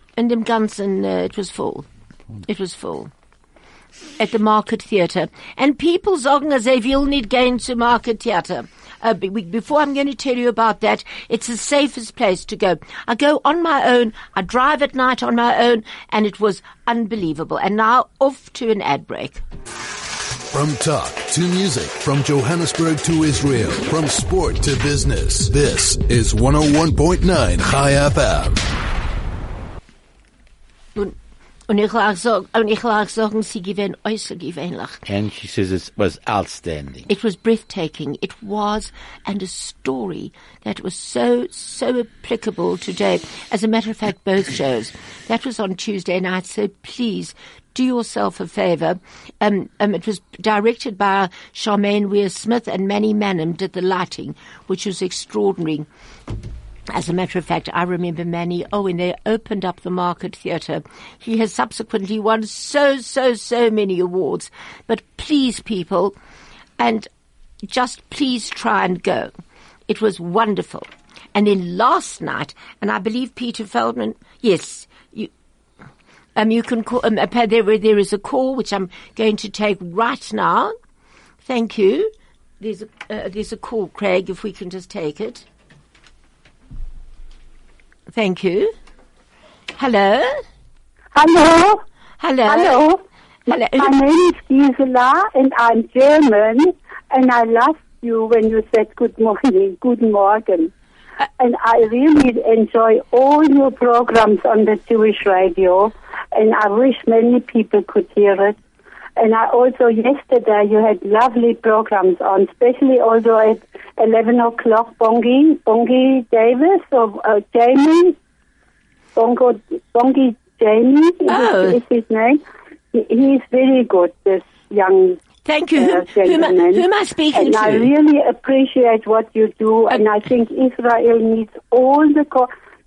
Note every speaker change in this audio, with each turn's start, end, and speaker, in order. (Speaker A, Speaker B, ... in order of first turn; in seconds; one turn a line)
Speaker A: 0.2-1.9
Speaker A: 2.5-3.1
Speaker A: 4.2-19.4
Speaker B: 20.5-28.6
Speaker A: 31.7-35.0
Speaker C: 35.1-37.1
Speaker A: 37.1-55.9
Speaker A: 56.9-66.2
Speaker A: 66.8-67.1
Speaker A: 67.7-69.3
Speaker A: 69.9-75.3
Speaker A: 76.4-80.7
Speaker A: 81.5-85.5
Speaker A: 88.1-88.7
Speaker A: 89.8-90.4
Speaker D: 91.2-91.8
Speaker A: 92.2-92.8
Speaker D: 92.5-93.0
Speaker A: 93.5-93.9
Speaker D: 93.5-100.7
Speaker D: 101.4-108.6
Speaker D: 109.2-118.2
Speaker D: 119.2-122.4
Speaker A: 121.3-121.8
Speaker D: 122.9-125.2
Speaker A: 125.5-127.9
Speaker D: 125.8-132.5